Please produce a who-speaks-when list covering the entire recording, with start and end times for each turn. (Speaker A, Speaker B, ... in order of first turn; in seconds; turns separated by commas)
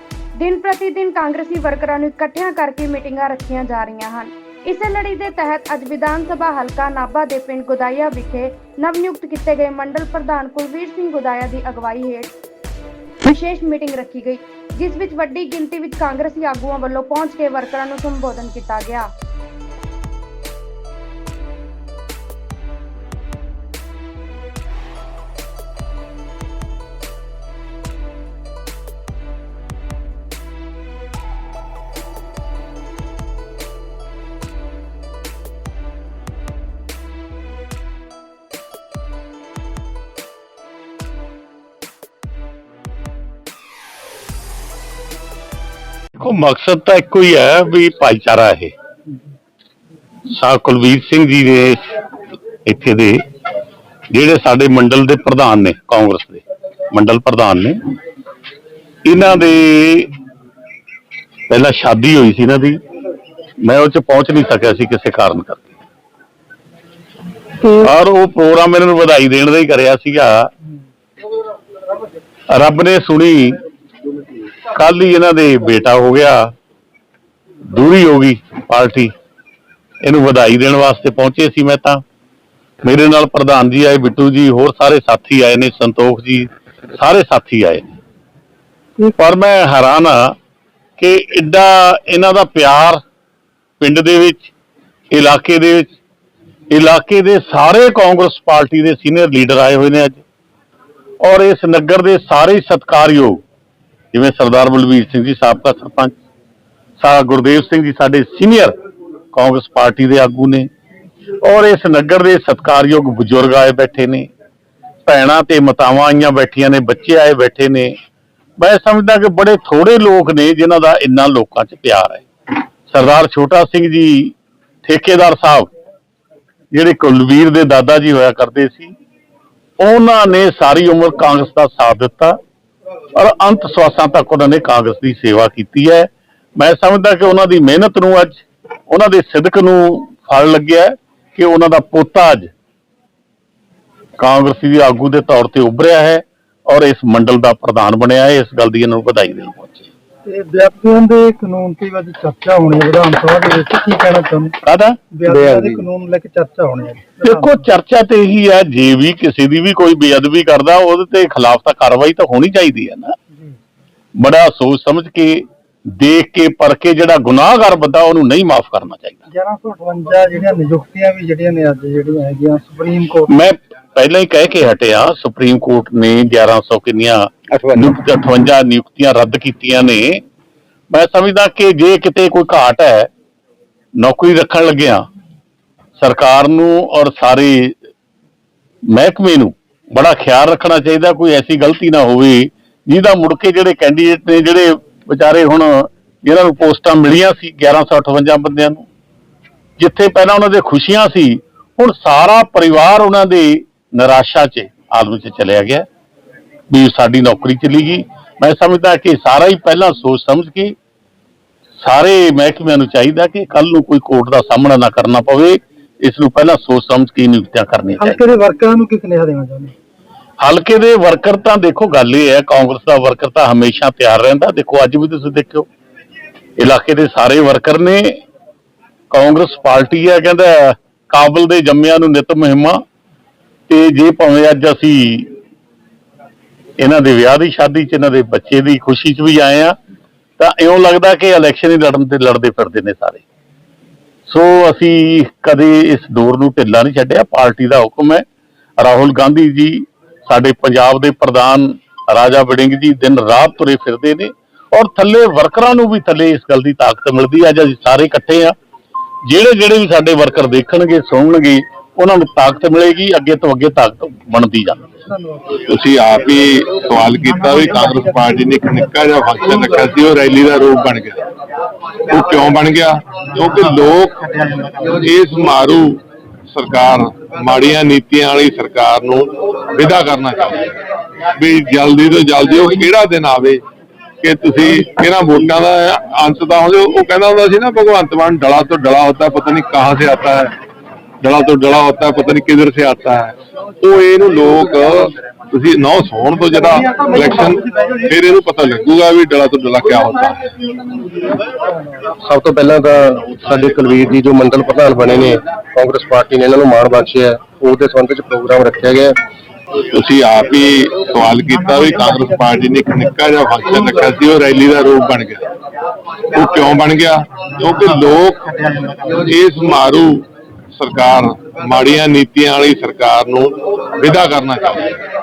Speaker A: 0.4-12.3, Speaker A: 13.2-19.1, Speaker B: 46.2-48.7, Speaker B: 50.3-51.8, Speaker B: 52.6-53.2, Speaker B: 54.1-57.8, Speaker B: 59.0-60.1, Speaker B: 61.5-62.8, Speaker B: 63.6-65.7, Speaker B: 67.7-70.5, Speaker B: 72.5-73.6, Speaker B: 74.7-76.5, Speaker B: 77.7-79.1, Speaker B: 80.0-82.0, Speaker B: 82.8-87.9, Speaker B: 89.2-90.3, Speaker B: 91.0-93.0, Speaker B: 93.8-94.5, Speaker B: 95.1-95.9, Speaker B: 96.7-100.2, Speaker B: 101.2-103.4, Speaker B: 104.1-106.1, Speaker B: 107.0-108.7, Speaker B: 109.3-110.7, Speaker B: 111.4-114.3, Speaker B: 115.0-117.9, Speaker B: 118.6-122.2, Speaker B: 122.9-124.3, Speaker B: 124.8-125.7, Speaker B: 126.7-128.9, Speaker B: 129.8-132.4, Speaker B: 133.1-142.5, Speaker B: 144.2-149.9, Speaker C: 150.2-154.6, Speaker B: 154.6-155.0, Speaker C: 155.1-157.6, Speaker D: 155.3-155.8, Speaker B: 157.2-163.1, Speaker B: 164.2-169.2, Speaker C: 169.3-173.3, Speaker B: 173.3-180.2, Speaker B: 180.9-183.1, Speaker B: 184.0-185.0, Speaker B: 186.0-187.8, Speaker B: 188.9-198.8, Speaker B: 199.8-205.8, Speaker B: 206.7-210.8, Speaker B: 211.8-218.2, Speaker C: 218.0-219.7, Speaker B: 220.4-225.7, Speaker B: 226.6-228.2, Speaker B: 229.1-232.8, Speaker B: 233.7-235.3, Speaker B: 236.8-239.7, Speaker B: 240.4-243.2, Speaker B: 244.3-248.2, Speaker B: 248.8-258.5, Speaker B: 259.2-264.8, Speaker C: 265.0-265.4, Speaker E: 265.6-271.2, Speaker E: 272.1-274.4, Speaker E: 275.0-276.0, Speaker E: 276.5-280.7, Speaker E: 281.4-283.6, Speaker E: 284.2-290.5, Speaker E: 291.2-300.4, Speaker D: 302.2-309.1, Speaker E: 309.9-315.5, Speaker E: 316.3-320.2, Speaker E: 320.8-324.9